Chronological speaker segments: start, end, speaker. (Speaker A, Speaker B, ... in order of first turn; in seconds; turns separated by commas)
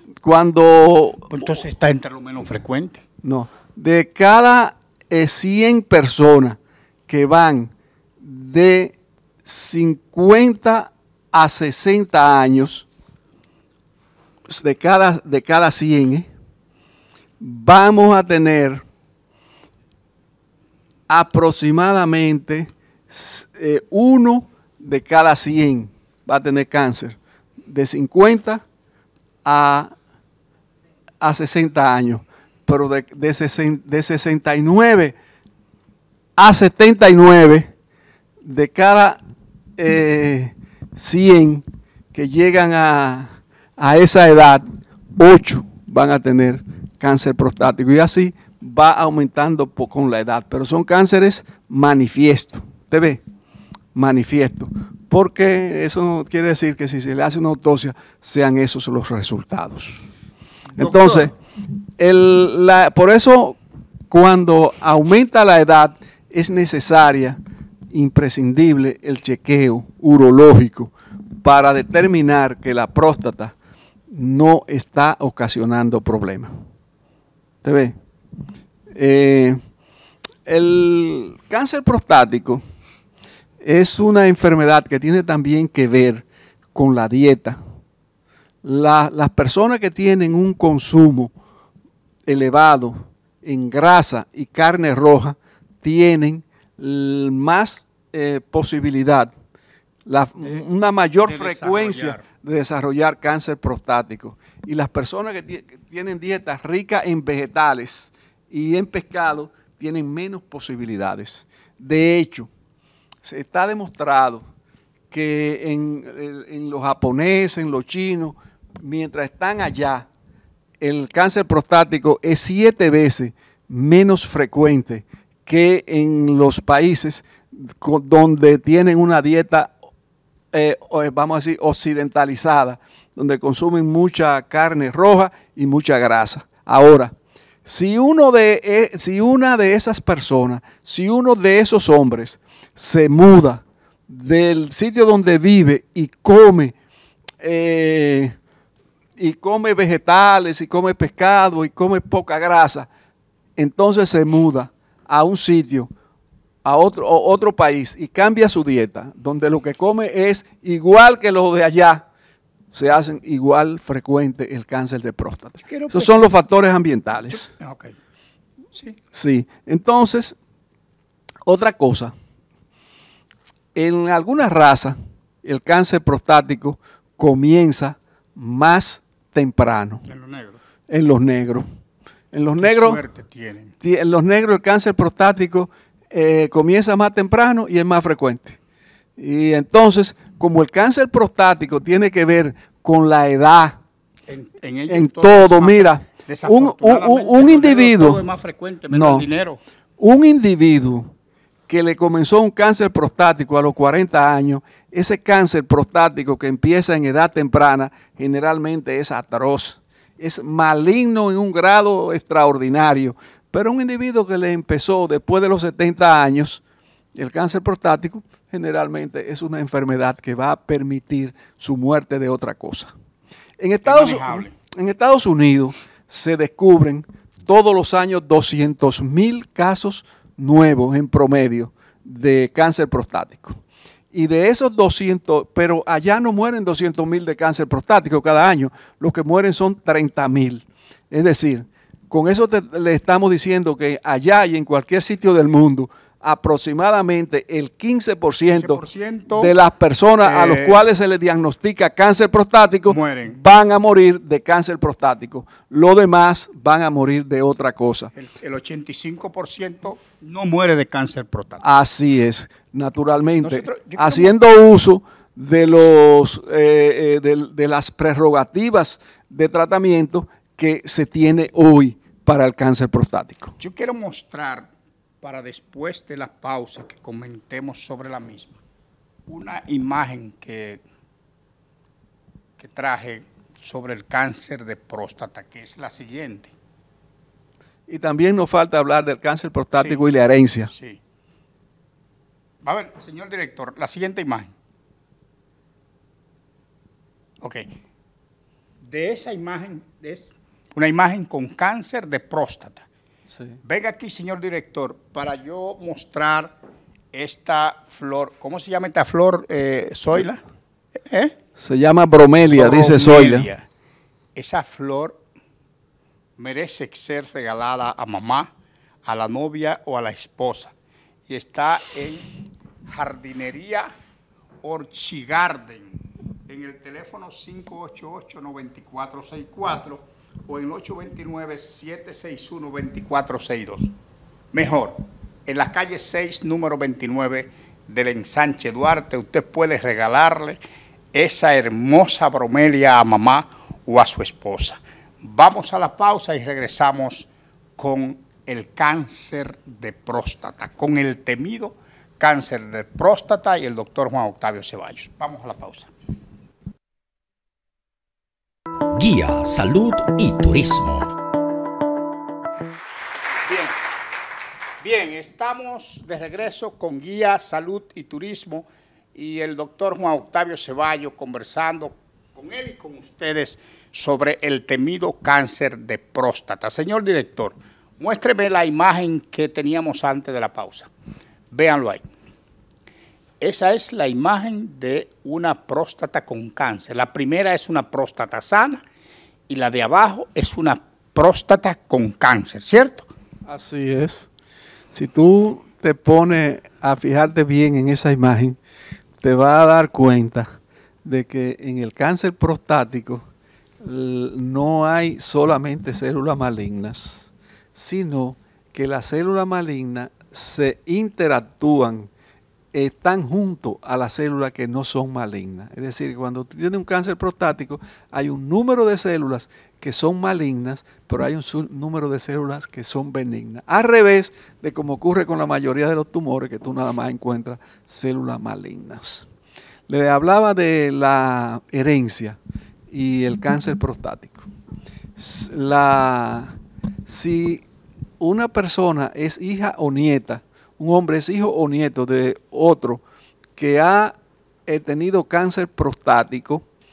Speaker A: 0.2-1.4, Speaker B: 1.3-3.0, Speaker A: 3.2-12.9, Speaker A: 14.5-16.3, Speaker A: 17.4-18.8, Speaker A: 21.1-28.6, Speaker A: 29.4-29.9, Speaker A: 31.2-35.1, Speaker A: 36.4-37.7, Speaker A: 38.4-39.2, Speaker A: 39.8-44.6, Speaker A: 45.2-53.2, Speaker A: 53.9-60.0, Speaker B: 60.7-61.3, Speaker A: 60.8-61.3, Speaker A: 62.0-63.6, Speaker A: 64.1-67.4, Speaker A: 67.9-73.5, Speaker A: 74.1-76.5, Speaker A: 77.6-78.0, Speaker A: 78.9-79.6, Speaker A: 80.5-82.6, Speaker A: 83.6-87.6, Speaker A: 88.6-91.3, Speaker A: 92.2-99.3, Speaker A: 100.0-112.5, Speaker B: 101.2-102.2, Speaker A: 113.2-114.4, Speaker A: 115.1-120.1, Speaker A: 120.8-129.8, Speaker A: 130.5-137.1, Speaker A: 137.6-146.7, Speaker A: 147.4-148.4, Speaker A: 149.2-152.9, Speaker A: 153.6-155.9, Speaker A: 156.6-162.1, Speaker A: 162.7-167.5, Speaker B: 165.6-166.3, Speaker B: 167.3-167.9, Speaker A: 169.1-170.3, Speaker A: 171.4-172.1, Speaker A: 173.7-180.0, Speaker B: 180.1-180.6, Speaker A: 180.9-181.7, Speaker A: 182.3-183.0, Speaker B: 182.6-183.7, Speaker A: 183.8-188.6, Speaker A: 189.2-193.8, Speaker B: 194.3-199.6, Speaker A: 194.9-198.2, Speaker A: 198.9-199.3, Speaker A: 200.0-201.1, Speaker A: 201.7-216.6, Speaker A: 217.1-222.9, Speaker A: 223.6-233.6, Speaker B: 223.8-224.5, Speaker A: 234.1-248.8, Speaker B: 248.5-249.5, Speaker A: 249.3-258.1, Speaker B: 250.2-250.8, Speaker B: 252.9-253.4, Speaker B: 258.1-261.6, Speaker A: 261.6-273.5, Speaker B: 263.4-264.4, Speaker B: 273.6-274.7, Speaker B: 275.2-278.6, Speaker B: 279.3-280.8, Speaker B: 282.6-286.5, Speaker A: 287.9-290.7, Speaker B: 290.7-291.0, Speaker B: 292.6-294.5, Speaker B: 297.4-297.6, Speaker B: 298.8-302.9, Speaker A: 303.3-303.6, Speaker B: 303.6-306.5, Speaker B: 307.1-310.4, Speaker B: 311.1-311.3, Speaker A: 311.6-313.5, Speaker B: 312.5-313.6, Speaker B: 314.3-315.2, Speaker B: 316.4-318.5, Speaker B: 319.0-320.7, Speaker B: 321.3-322.3, Speaker B: 322.9-323.9, Speaker B: 324.6-333.9, Speaker B: 334.5-340.6, Speaker B: 341.1-355.9, Speaker C: 358.9-361.1, Speaker B: 363.4-363.8, Speaker B: 364.8-380.9, Speaker B: 381.5-382.0, Speaker B: 383.4-388.8, Speaker B: 389.5-393.1, Speaker A: 393.5-394.3, Speaker A: 394.9-398.6, Speaker A: 399.2-403.2, Speaker A: 403.8-412.1, Speaker A: 412.7-429.2, Speaker A: 429.9-432.4, Speaker A: 432.9-434.5, Speaker A: 435.2-436.5, Speaker A: 437.1-437.6, Speaker A: 438.2-443.0, Speaker A: 443.6-446.6